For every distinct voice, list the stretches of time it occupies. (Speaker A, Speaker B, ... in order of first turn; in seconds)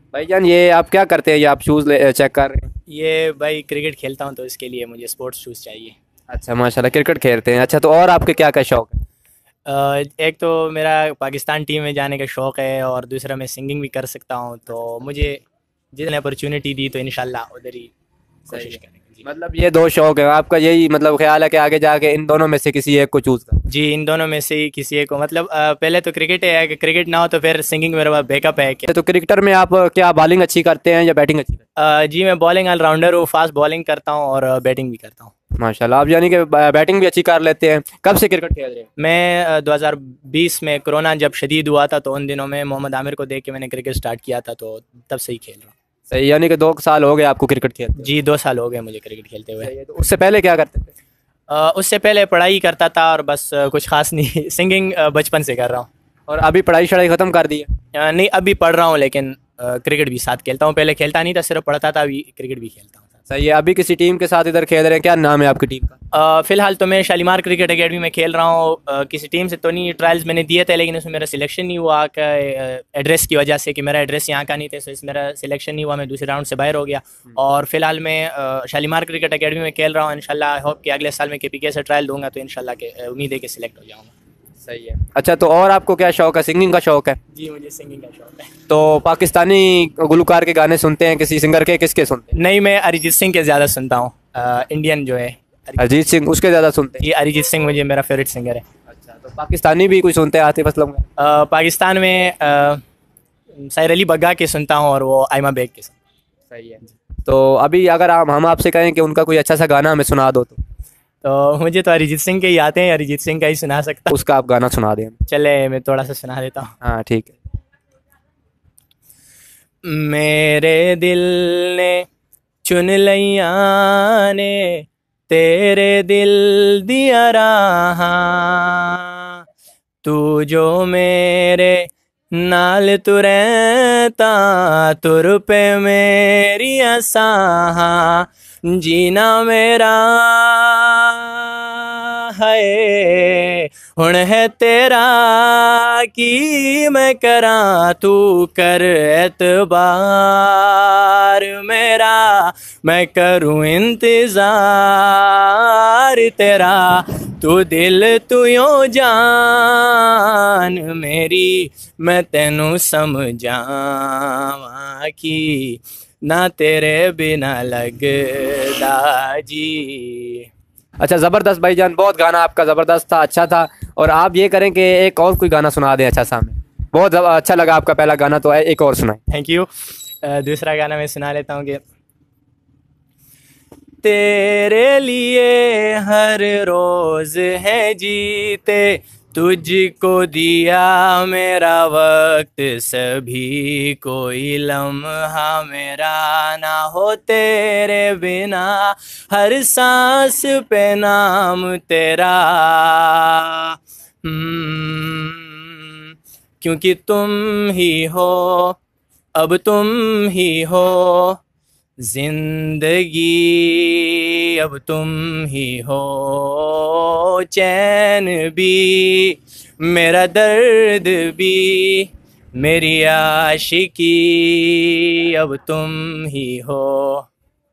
Speaker A: 0.1-2.7, 6.3-9.0, 18.5-23.6, 28.9-31.6, 35.6-38.9, 46.1-48.1, 49.6-50.9, 56.3-57.7, 63.3-66.0, 84.6-87.2, 88.7-92.3, 95.8-97.0, 98.9-101.0, 106.5-110.6, 114.1-115.1, 116.8-117.3, 171.0-179.2
Speaker B: 2.9-6.0, 9.7-15.4, 15.9-17.9, 18.5-19.2, 23.7-28.9, 31.8-35.3, 39.0-45.7, 48.0-49.7, 51.5-55.9, 57.9-63.1, 66.1-84.1, 87.3-88.5, 92.3-95.9, 97.0-98.6, 101.2-102.8, 103.6-106.0, 111.2-114.1, 115.3-116.8, 119.8-122.1, 122.6-129.4, 130.0-170.5, 179.3-179.7, 180.2-181.8, 184.0-208.8, 209.3-211.4, 212.0-227.3